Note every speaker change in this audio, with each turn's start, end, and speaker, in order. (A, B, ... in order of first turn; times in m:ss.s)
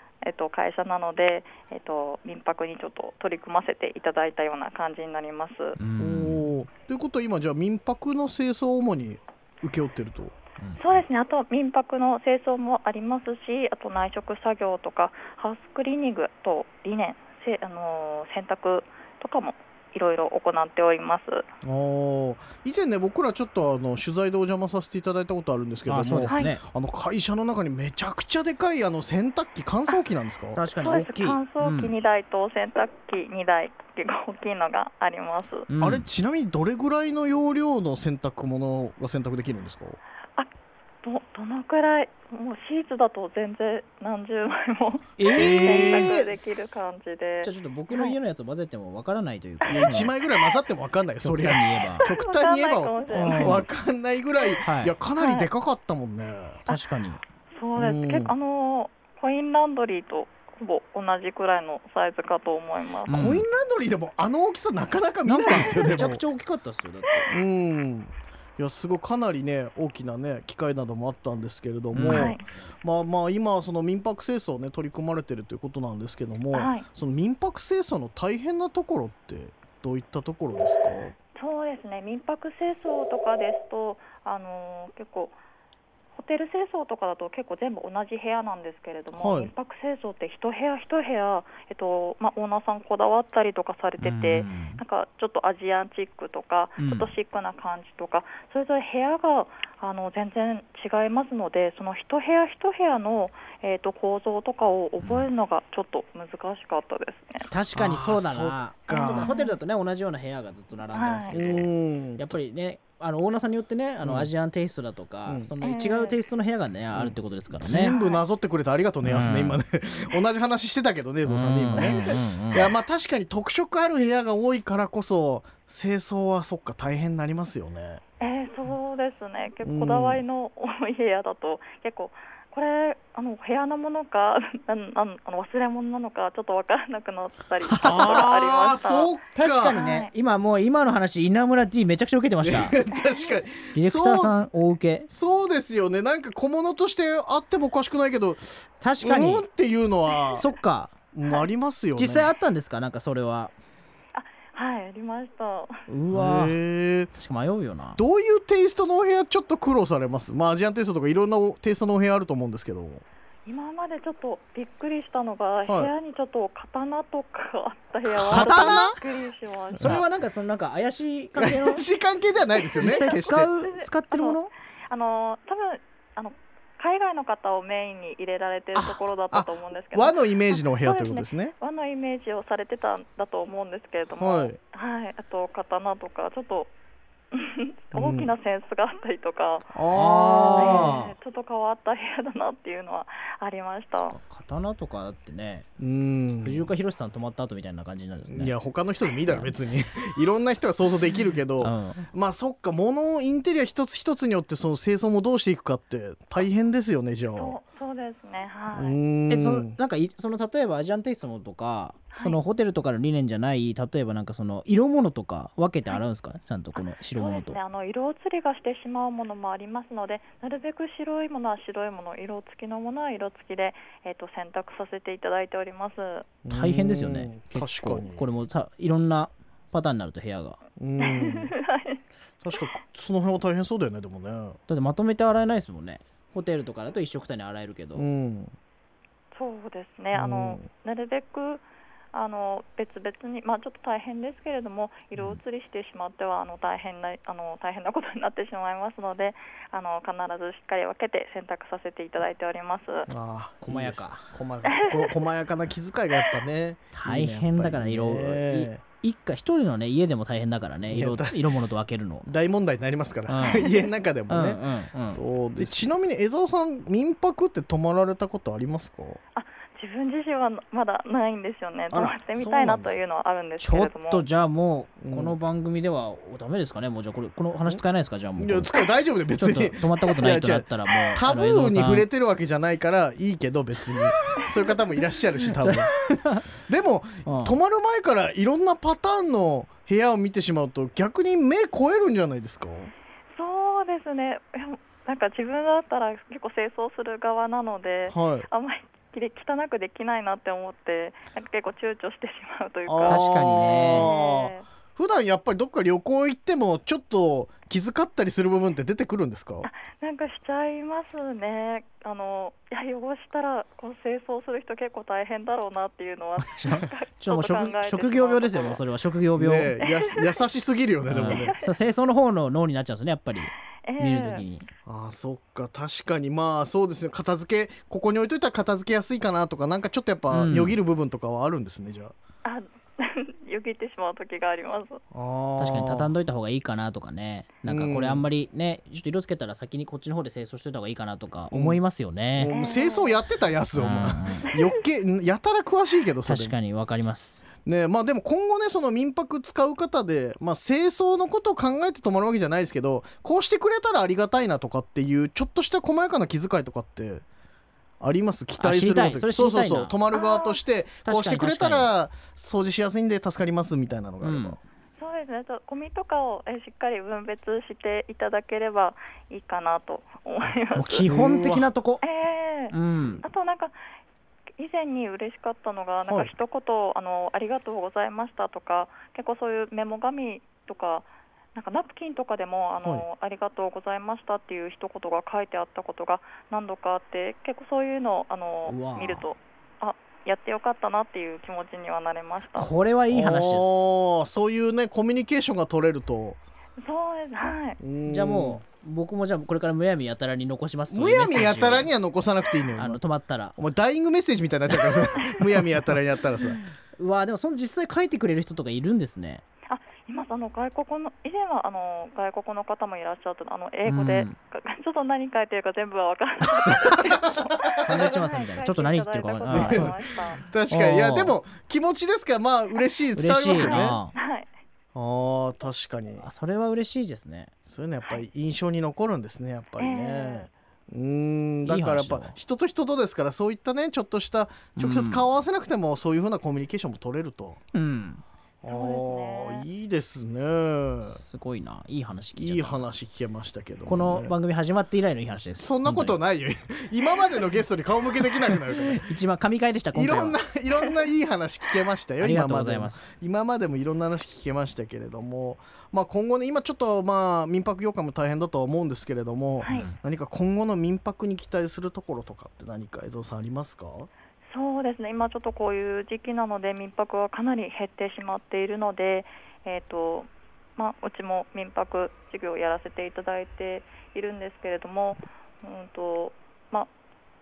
0:00.2-0:05.8 A
0:05.8-0:06.4 B
0:06.0-0:10.3 C
0:10.8-0:21.5 A
0:21.6-0:30.6 C
0:25.8-0:26.6 B
0:26.3-0:26.6 A
0:30.5-0:31.9 B
0:30.8-0:35.7 A
0:35.7-0:36.0 B
0:35.8-0:40.0 C
0:41.0-0:48.2 A
0:45.2-0:46.4 B
0:45.4-0:46.2 C
0:47.4-0:50.1 B
0:49.6-0:50.0 A
0:49.7-0:56.6 C
0:51.2-0:52.0 B
0:52.0-0:53.6 A
0:53.2-0:53.6 B
0:54.6-0:54.9 B
0:55.2-0:55.5 A
0:56.7-0:57.2 B
0:57.6-1:03.3 A
0:57.8-0:58.3 C
1:03.1-1:03.4 B
1:03.1-1:06.2 C
1:05.2-1:07.2 B
1:07.3-1:21.1 C
1:11.9-1:12.4 B
1:12.0-1:12.4 A
1:16.5-1:16.8 A
1:21.4-1:25.4 A
1:26.1-1:47.5 A
1:29.1-1:29.5 C
1:34.0-1:34.8 B
1:36.8-1:37.1 B
1:45.0-1:45.3 B
1:47.5-1:57.9 B
1:47.7-1:49.3 C
1:49.0-1:49.6 A
1:50.9-1:51.4 A
1:51.3-1:52.4 C
1:54.0-1:54.3 C
1:55.2-1:55.5 C
1:55.6-1:56.2 A
1:56.9-2:08.0 C
1:57.9-1:58.2 A
1:59.0-1:59.6 B
2:01.2-2:02.7 B
2:01.7-2:02.1 A
2:08.2-2:19.1 A
2:09.6-2:10.2 C
2:17.6-2:18.2 B
2:17.8-2:19.8 C
2:19.4-2:22.7 B
2:19.7-2:20.1 A
2:22.4-2:24.4 C
2:22.8-2:23.4 A
2:23.7-2:25.1 B
2:25.1-2:30.4 C
2:28.8-2:29.4 B
2:30.1-2:30.4 A
2:30.3-2:30.9 B
2:31.1-2:32.3 C
2:32.0-2:33.5 B
2:34.1-2:35.8 A
2:35.9-2:36.6 B
2:36.1-2:37.1 C
2:37.1-2:38.0 B
2:38.0-2:43.0 C
2:43.4-2:50.1 A
2:45.7-2:45.9 C
2:48.0-2:49.0 C
2:48.3-2:49.0 B
2:49.8-2:50.0 C
2:49.8-2:51.8 B
2:51.3-2:53.5 C
2:52.6-2:53.0 A
2:52.8-2:54.5 B
2:53.6-3:06.7 A
2:59.3-3:01.5 C
3:04.2-3:04.6 C
3:07.3-3:09.8 A
3:07.9-3:08.3 C
3:09.7-3:11.0 C
3:09.9-3:11.1 B
3:10.5-3:14.2 A
3:13.9-3:15.6 B
3:15.8-3:16.7 C
3:16.4-3:18.5 B
3:18.2-3:27.6 C
3:19.2-3:19.6 B
3:21.6-3:22.1 B
3:27.4-3:29.0 A
3:28.7-3:29.7 C
3:29.3-3:37.6 B
3:32.1-3:32.4 A
3:36.8-3:46.3 A
3:46.4-3:48.3 C
3:46.5-3:50.6 B
3:50.8-3:51.5 C
3:51.0-3:52.0 A
3:52.4-3:54.6 C
3:54.7-3:58.0 B
3:57.9-3:58.5 C
3:59.3-4:13.1 A
4:00.1-4:00.7 C
4:13.1-4:18.8 C
4:13.6-4:14.3 B
4:14.6-4:15.1 A
4:16.9-4:22.2 B
4:20.9-4:21.4 C
4:22.2-4:29.2 C
4:23.3-4:23.7 B
4:23.4-4:23.9 A
4:24.3-4:25.9 B
4:29.3-4:34.2 A
4:31.9-4:33.0 C
4:33.6-4:38.7 B
4:35.0-4:35.4 C
4:38.4-4:46.0 C
4:39.3-4:42.0 B
4:45.6-4:46.4 B
4:46.7-4:52.9 C
4:47.2-4:47.5 B
4:53.3-5:04.7 A
4:58.1-4:58.5 C
5:02.8-5:09.7 C
5:03.0-5:04.1 B
5:09.6-5:18.8 A
5:16.6-5:19.7 B
5:19.4-5:21.6 C
5:19.8-5:20.4 A
5:21.1-5:24.7 B
5:21.2-5:21.7 A
5:23.8-5:24.4 A
5:24.8-5:32.1 C
5:30.3-5:30.8 B
5:32.4-5:35.0 A
5:35.1-5:36.1 C
5:35.6-5:42.6 B
5:37.6-5:38.3 C
5:41.5-5:41.8 C
5:42.4-5:46.5 C
5:42.5-5:43.2 A
5:43.7-5:44.5 B
5:46.2-5:47.4 B
5:47.6-5:57.2 C
5:58.0-6:04.6 C
5:58.6-5:59.9 B
6:00.1-6:00.6 A
6:01.0-6:01.9 B
6:04.2-6:04.6 B
6:05.0-6:11.0 A
6:10.7-6:12.0 B
6:11.0-6:11.7 C
6:12.0-6:13.8 A
6:12.7-6:13.2 B
6:14.6-6:32.7 A
6:22.8-6:23.0 C
6:28.6-6:29.3 B
6:32.5-6:33.9 B
6:33.1-6:36.4 C
6:36.8-6:37.8 A
6:37.8-6:38.6 C
6:38.0-6:41.9 B
6:40.9-6:43.0 C
6:42.8-6:43.6 B
6:43.6-6:46.6 C
6:47.0-6:49.4 B
6:49.7-7:00.4 A
6:53.8-6:54.3 B
6:57.0-6:58.1 C
6:57.8-7:00.0 B
6:59.5-7:04.0 C
7:00.7-7:01.4 B
7:03.2-7:04.1 B
7:03.6-7:04.5 A
7:04.9-7:06.3 C
7:06.2-7:07.5 B
7:07.6-7:17.6 C
7:09.8-7:10.5 A
7:11.6-7:12.4 B
7:14.8-7:15.3 B
7:17.7-7:18.2 B
7:18.6-7:21.2 C
7:18.7-7:19.7 A
7:21.1-7:22.9 B
7:22.4-7:24.3 C
7:23.9-7:26.2 B
7:25.6-7:29.0 C
7:28.7-7:30.4 B
7:29.9-7:44.1 C
7:32.2-7:33.0 B
7:39.6-7:40.0 B
7:44.5-7:56.9 A